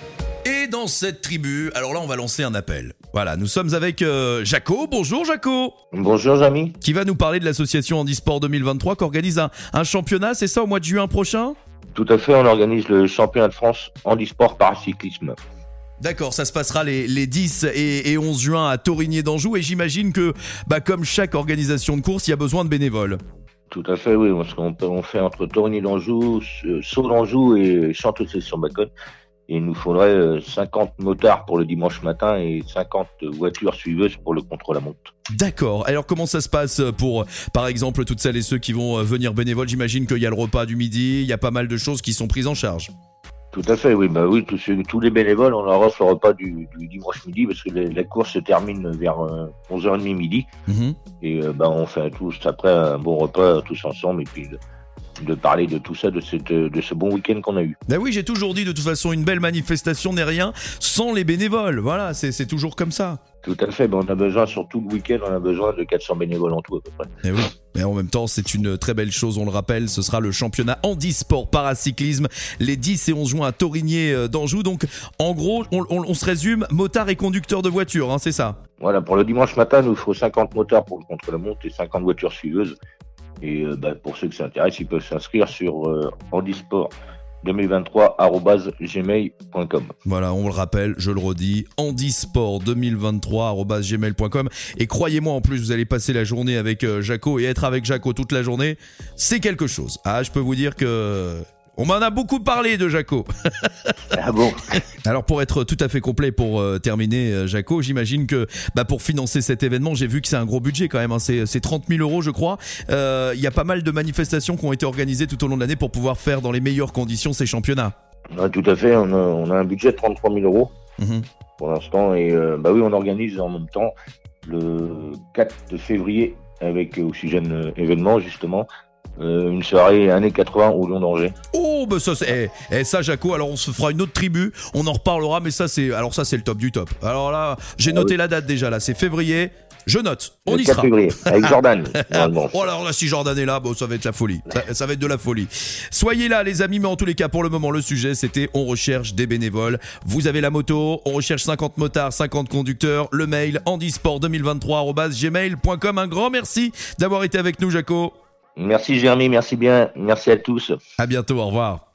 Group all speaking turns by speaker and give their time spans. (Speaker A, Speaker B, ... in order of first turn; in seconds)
Speaker A: 0.4-5.7, 6.8-11.5, 16.0-23.2, 35.3-42.9, 50.7-51.0, 57.9-63.2, 67.2-78.6, 90.0-103.9, 104.7-117.9, 121.0-121.2, 131.5-158.1, 161.0-161.8
Speaker B: 5.9-6.8, 11.9-15.3, 23.7-28.9, 29.5-35.1, 43.5-50.5, 51.2-54.6, 55.2-57.8, 63.4-67.1, 78.8-82.8, 83.4-89.9, 104.1-104.8, 118.3-120.7, 121.6-123.9, 124.4-131.3, 140.5-142.7, 158.6-160.7